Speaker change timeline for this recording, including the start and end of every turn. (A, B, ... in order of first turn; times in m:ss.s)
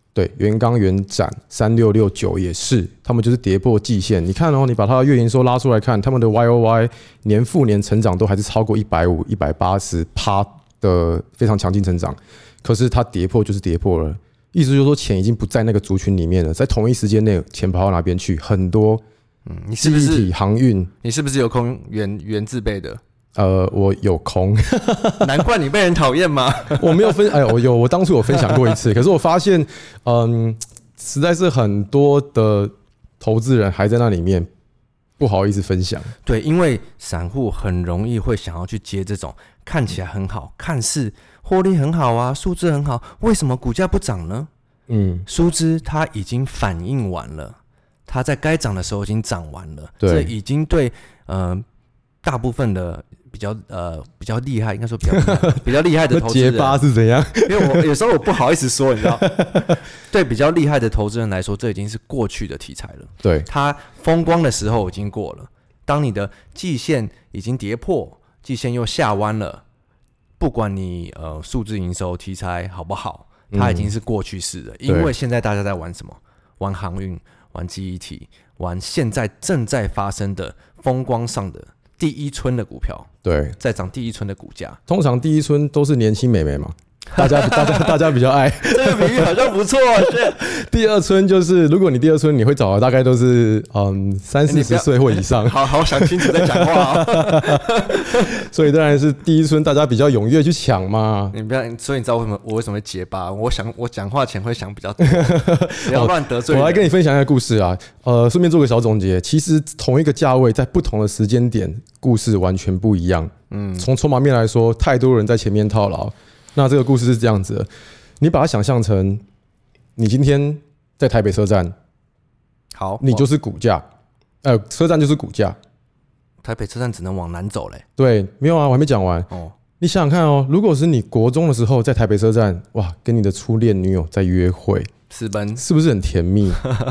0:00.2-0:19.0 A
0:19.5-0:20.3 B
0:19.8-0:20.9 A
0:21.0-0:23.0 B
0:23.4-0:25.4 A
0:25.2-0:27.4 B
0:26.8-0:34.5 A
0:28.3-0:28.7 B
0:35.2-0:36.1 A
0:36.2-0:44.5 B
0:44.9-0:45.3 A
0:45.3-0:47.6 B
0:48.1-0:51.6 B
0:50.0-0:50.3 A
0:52.2-0:56.8 B
0:55.1-0:55.6 A
0:56.1-0:57.9 A
0:57.4-0:59.3 B
0:59.1-0:59.8 A
1:00.0-1:09.6 B
1:10.4-1:23.1 B
1:13.5-1:13.9 A
1:14.9-1:15.1 A
1:23.2-1:23.6 A
1:23.6-1:24.8 B
1:24.9-1:29.5 A
1:27.2-1:28.0 B
1:28.6-1:30.4 B
1:30.1-1:41.3 A
1:34.5-1:38.3 B
1:41.3-1:46.9 B
1:45.0-1:57.7 A
1:53.5-1:53.9 B
1:58.2-1:59.2 A
2:00.0-2:01.7 A
2:02.7-2:03.2 B
2:03.0-2:03.8 A
2:04.4-2:05.6 A
2:06.4-2:07.8 B
2:08.0-2:09.3 A
2:09.3-2:09.6 B
2:09.8-2:14.9 A
2:15.1-2:15.6 B
2:15.6-2:16.6 A